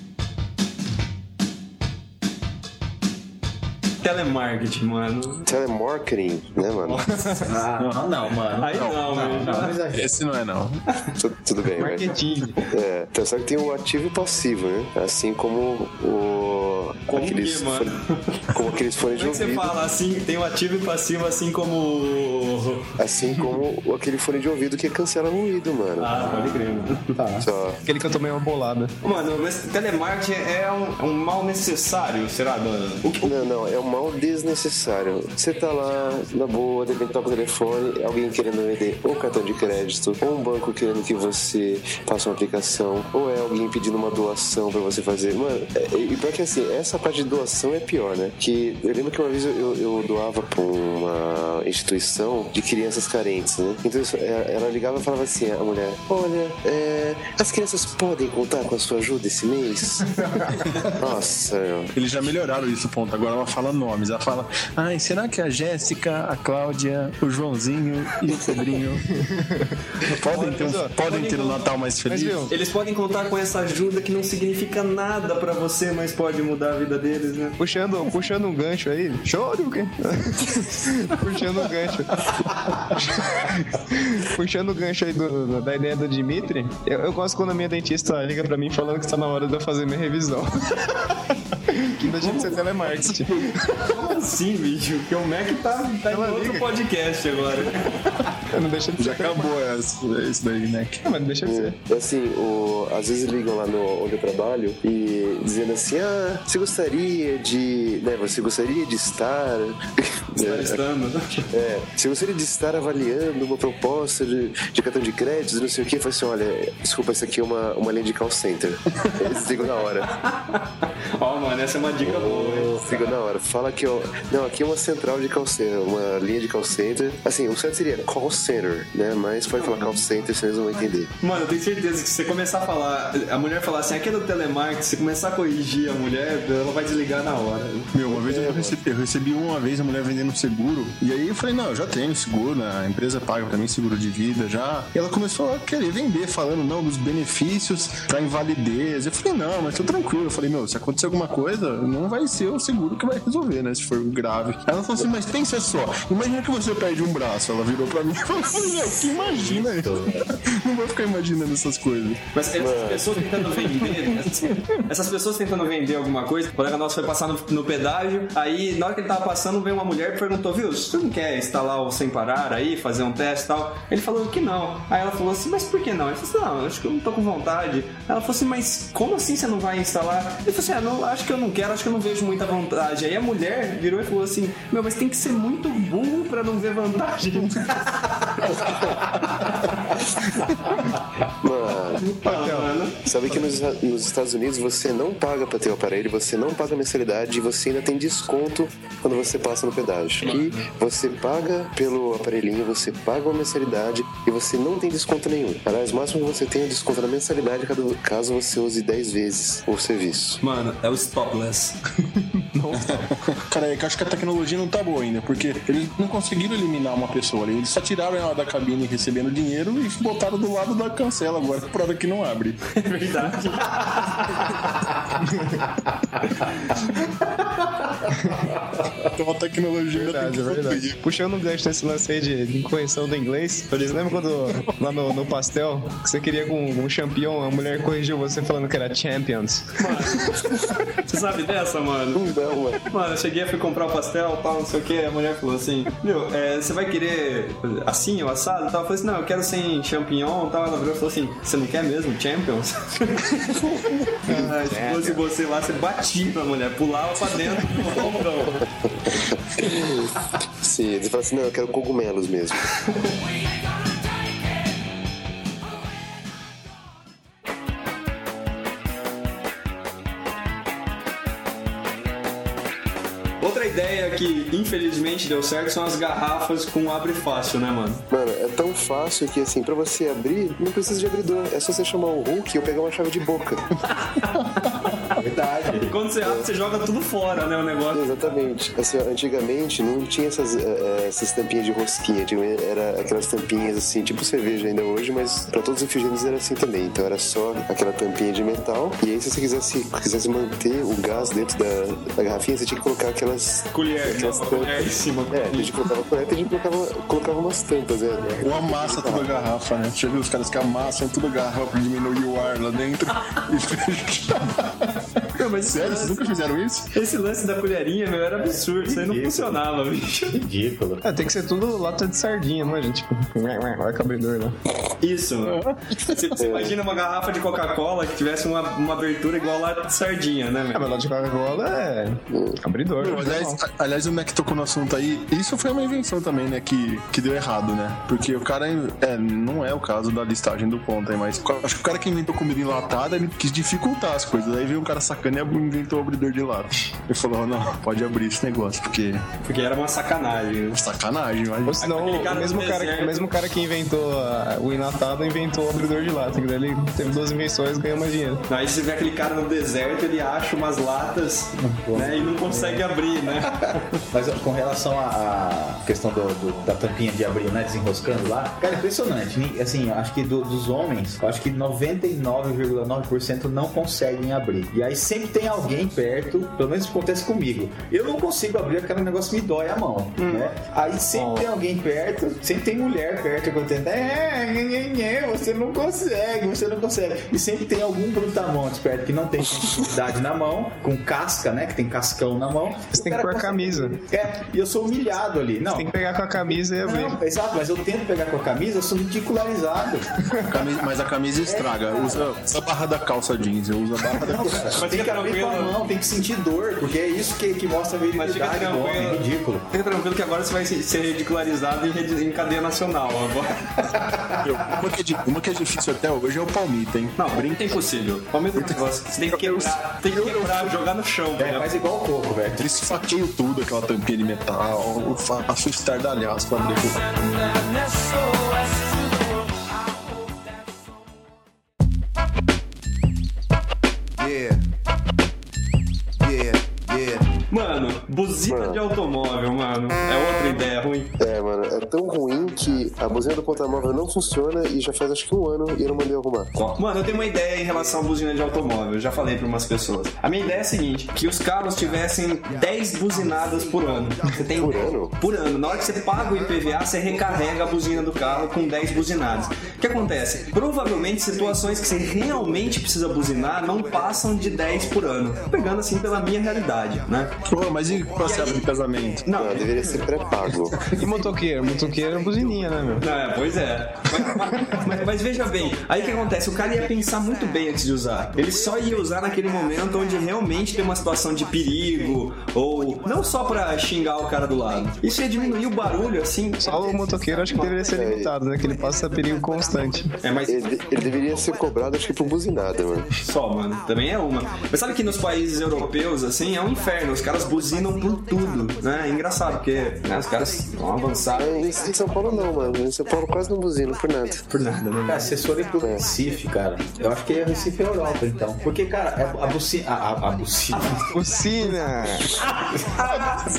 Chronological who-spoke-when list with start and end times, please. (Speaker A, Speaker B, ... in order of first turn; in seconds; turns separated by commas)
Speaker A: 4.0-5.5, Speaker B: 5.5-7.0, Speaker A: 6.8-7.5, Speaker C: 7.4-10.2, Speaker D: 7.8-8.1, Speaker A: 8.6-9.8, Speaker D: 8.7-10.8, Speaker B: 11.2-12.2, Speaker E: 11.8-12.7, Speaker B: 12.7-17.9, Speaker A: 17.1-23.0, Speaker B: 18.5-19.8, Speaker B: 23.0-26.4, Speaker A: 26.0-27.1, Speaker C: 26.2-26.6, Speaker C: 27.1-27.5, Speaker B: 27.4-27.8, Speaker E: 27.9-28.9, Speaker A: 29.0-33.4, Speaker B: 33.2-61.9, Speaker D: 62.0-69.1, Speaker E: 69.2-69.8, Speaker D: 70.1-72.5, Speaker E: 70.3-70.9, Speaker A: 71.0-71.6, Speaker E: 72.1-72.5, Speaker A: 72.5-77.6, Speaker E: 77.6-93.9, Speaker A: 92.2-92.6, Speaker D: 93.1-93.4, Speaker A: 93.8-98.2, Speaker E: 96.1-96.7, Speaker E: 98.5-99.5, Speaker D: 99.0-101.0, Speaker E: 101.0-101.8, Speaker B: 101.5-110.8, Speaker A: 110.4-111.5, Speaker B: 111.5-120.2, Speaker A: 120.0-122.9, Speaker B: 122.1-131.1, Speaker C: 122.4-123.0, Speaker A: 129.6-130.0, Speaker A: 131.2-137.9, Speaker D: 137.9-162.2, Speaker B: 138.1-138.8, Speaker C: 159.1-160.4, Speaker A: 162.3-190.0, Speaker B: 162.6-163.2, Speaker B: 191.4-192.1, Speaker A: 192.0-193.1, Speaker E: 192.2-192.7, Speaker B: 193.1-210.4, Speaker A: 200.2-200.7, Speaker A: 210.4-211.8, Speaker E: 212.5-213.1, Speaker D: 212.7-222.6, Speaker A: 222.7-224.7, Speaker E: 225.3-225.6, Speaker D: 229.0-231.0, Speaker E: 229.9-240.5, Speaker A: 233.7-234.2, Speaker A: 239.8-258.7, Speaker B: 242.1-242.8, Speaker E: 254.3-255.2, Speaker B: 259.1-262.8, Speaker A: 273.4-278.0, Speaker B: 278.1-283.8, Speaker A: 283.9-285.0, Speaker C: 285.1-285.9, Speaker A: 285.8-288.4, Speaker B: 287.9-309.4, Speaker A: 303.7-305.8, Speaker D: 308.4-316.9, Speaker A: 315.4-316.3, Speaker A: 316.9-320.4, Speaker C: 318.4-319.6, Speaker C: 320.3-321.0, Speaker E: 321.0-324.6, Speaker A: 325.0-331.0, Speaker D: 325.4-326.4, Speaker B: 326.4-326.8, Speaker E: 330.7-333.6, Speaker B: 332.3-332.6, Speaker D: 333.0-349.3, Speaker A: 349.4-350.8, Speaker D: 350.8-351.9, Speaker E: 351.7-358.4, Speaker A: 351.8-353.3, Speaker A: 358.5-363.9, Speaker C: 361.6-362.9, Speaker C: 363.4-395.9, Speaker A: 380.2-380.5, Speaker A: 381.1-381.4, Speaker E: 392.9-394.0, Speaker E: 395.7-397.2, Speaker C: 396.5-400.1, Speaker D: 400.5-404.8, Speaker C: 401.4-402.3, Speaker C: 404.2-409.7, Speaker A: 404.7-405.8, Speaker A: 408.1-413.9, Speaker C: 414.1-414.5, Speaker D: 414.4-417.8, Speaker A: 417.2-421.7, Speaker D: 419.3-420.8, Speaker C: 421.4-422.7, Speaker D: 422.6-427.0, Speaker F: 426.8-430.4, Speaker F: 434.2-434.6, Speaker F: 436.2-437.3, Speaker A: 437.5-441.1, Speaker B: 438.5-438.8, Speaker B: 441.2-446.5, Speaker A: 446.6-467.4, Speaker B: 454.6-455.1, Speaker D: 467.4-469.3, Speaker A: 468.2-468.7, Speaker A: 469.2-470.0, Speaker B: 469.3-470.9, Speaker E: 470.9-473.1, Speaker A: 473.0-487.8, Speaker E: 486.6-490.1, Speaker B: 487.9-488.4, Speaker A: 490.2-490.6, Speaker B: 490.5-493.1, Speaker A: 493.2-502.5, Speaker B: 501.3-504.4, Speaker A: 504.5-505.4, Speaker C: 505.1-511.1, Speaker E: 511.1-512.4, Speaker A: 512.4-513.5